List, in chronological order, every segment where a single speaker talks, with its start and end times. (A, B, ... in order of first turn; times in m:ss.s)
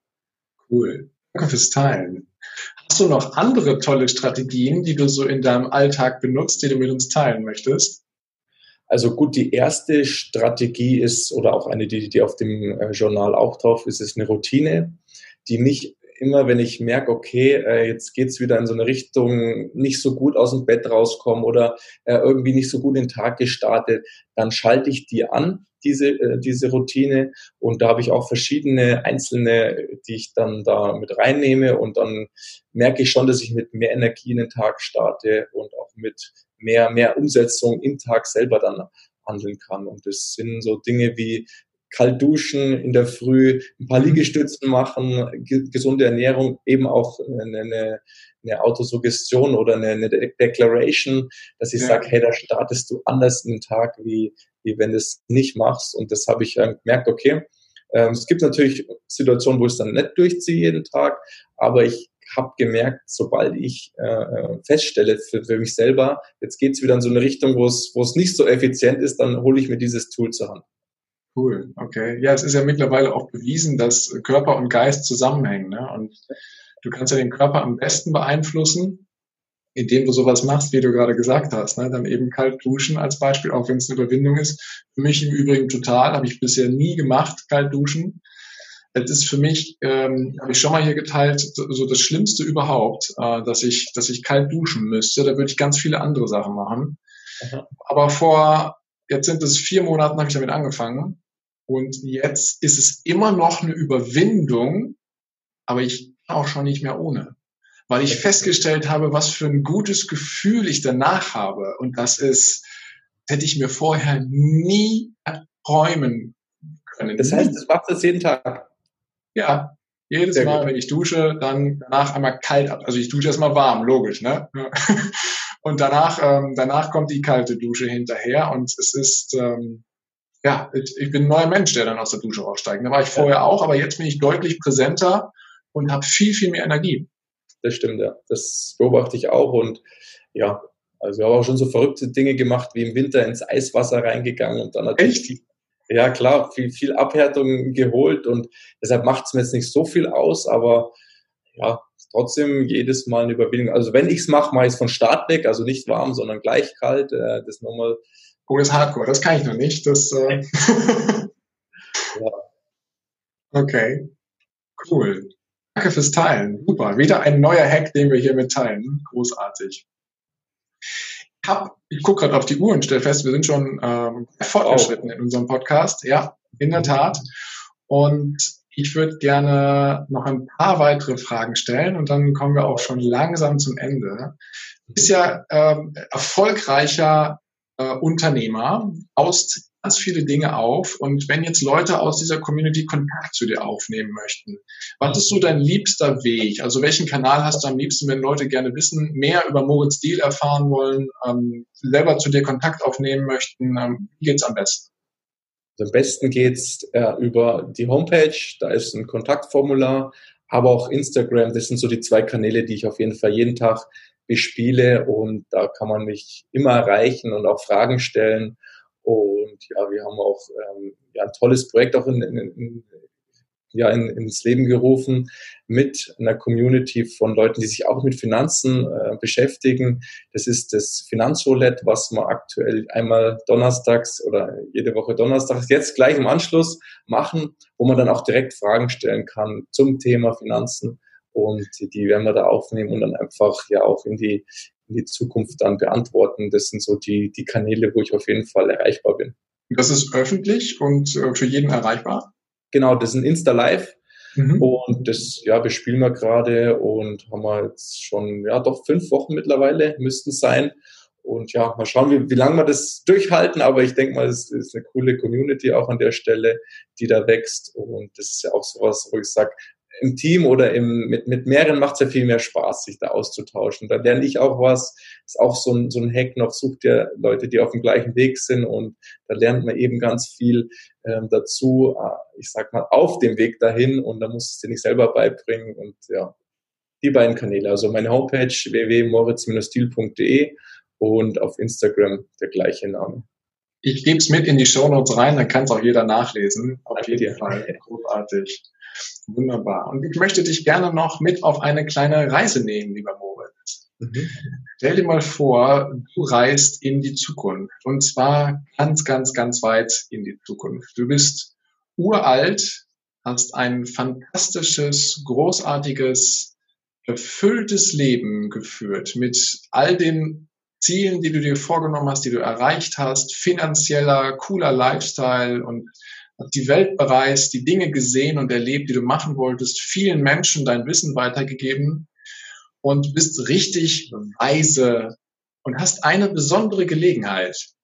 0:00.7-0:08.0 A
0:08.9-1:10.6 B
0:44.0-0:44.2 A
0:51.8-0:52.0 A
1:11.3-1:16.2 A
1:16.8-1:19.0 A
1:19.7-1:28.2 A
1:28.9-1:37.0 A
1:37.4-1:37.7 B
1:37.8-1:45.0 A
1:45.7-1:47.4 A
1:47.9-1:52.6 A
1:48.1-1:48.5 B
1:53.3-1:57.6 A
1:57.2-1:58.7 B
1:59.3-2:09.8 A
2:00.4-2:00.7 B
2:10.4-2:17.1 A
2:17.6-2:19.8 B
2:20.3-2:30.9 B
2:25.0-2:25.3 A
2:31.6-2:38.0 B
2:38.5-2:41.3 A
2:42.1-2:42.4 B
2:43.5-2:44.1 A
2:44.8-2:49.8 A
2:51.4-2:57.3 A
2:54.6-2:55.0 B
2:57.9-3:04.4 A
3:04.9-3:24.9 A
3:25.8-3:42.9 B
3:43.7-4:09.3 B
4:09.7-4:12.3 A
4:12.7-4:14.0 B
4:14.3-4:14.7 A
4:14.6-4:46.3 B
4:47.0-4:53.2 B
4:53.8-4:58.7 A
4:57.0-4:57.8 B
4:59.2-5:03.9 A
5:04.0-5:04.4 B
5:04.8-5:16.5 A
5:17.0-5:25.8 A
5:26.4-5:32.1 A
5:32.8-5:37.7 A